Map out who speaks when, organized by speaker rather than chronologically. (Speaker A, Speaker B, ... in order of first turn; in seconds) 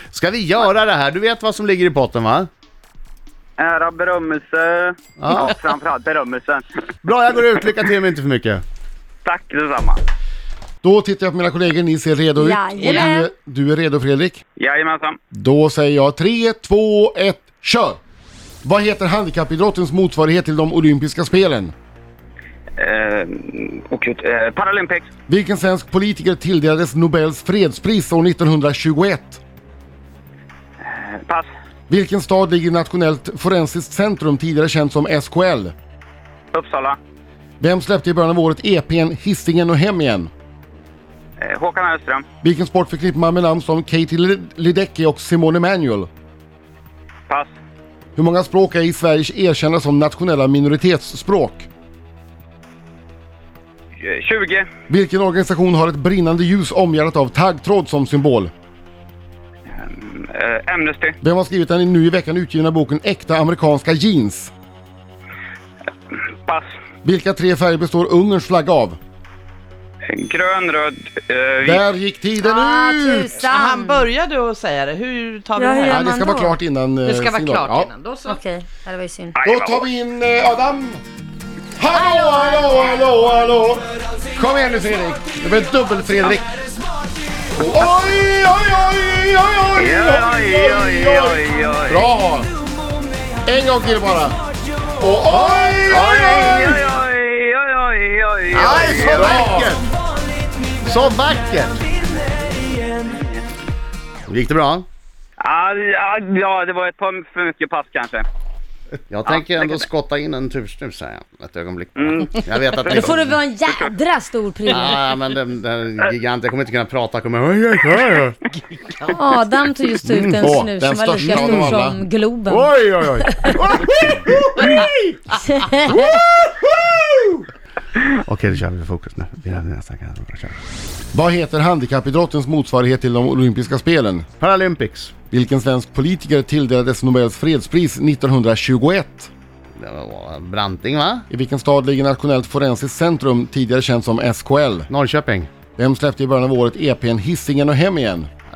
Speaker A: 0.1-2.5, 5.2-5.6, 7.0-8.6, 95.3-96.8, 98.5-99.9, 100.8-101.9, 104.3-104.9, 109.1-113.4, 114.7-119.1, 120.0-120.5, 121.2-121.8, 122.5-127.5, 128.0-130.6, 134.4-135.1, 139.8-141.3, 144.9-145.5
Speaker B: 3.6-6.7, 9.2-10.0, 14.6-15.2, 22.8-25.1, 30.9-31.5, 36.5-37.0, 41.4-42.3, 54.0-54.7, 59.8-61.2, 70.1-71.8, 79.4-79.9, 89.8-92.1, 95.9-99.3, 103.0-103.4, 105.4-108.3, 109.3-109.8, 112.0-113.2
Speaker C: 10.8-14.4, 15.3-18.0, 18.6-21.7, 25.3-29.4, 31.9-35.7, 37.6-40.3, 42.4-46.1, 48.2-51.7, 54.9-58.5, 61.2-64.5, 67.0-69.0, 71.6-73.4, 75.9-77.9, 79.5-81.0, 81.8-86.5, 87.5-92.5, 93.5-94.4, 95.0-96.1, 99.0-99.8, 120.4-122.0, 131.1-134.3, 135.3-139.3, 141.3-144.9, 145.8-148.3
Speaker D: 12.4-13.3, 72.4-74.1, 75.6-76.6, 78.2-79.3, 81.9-83.0, 112.9-115.0, 119.0-123.5, 125.4-126.0
Speaker E: 73.4-76.2, 77.0-78.4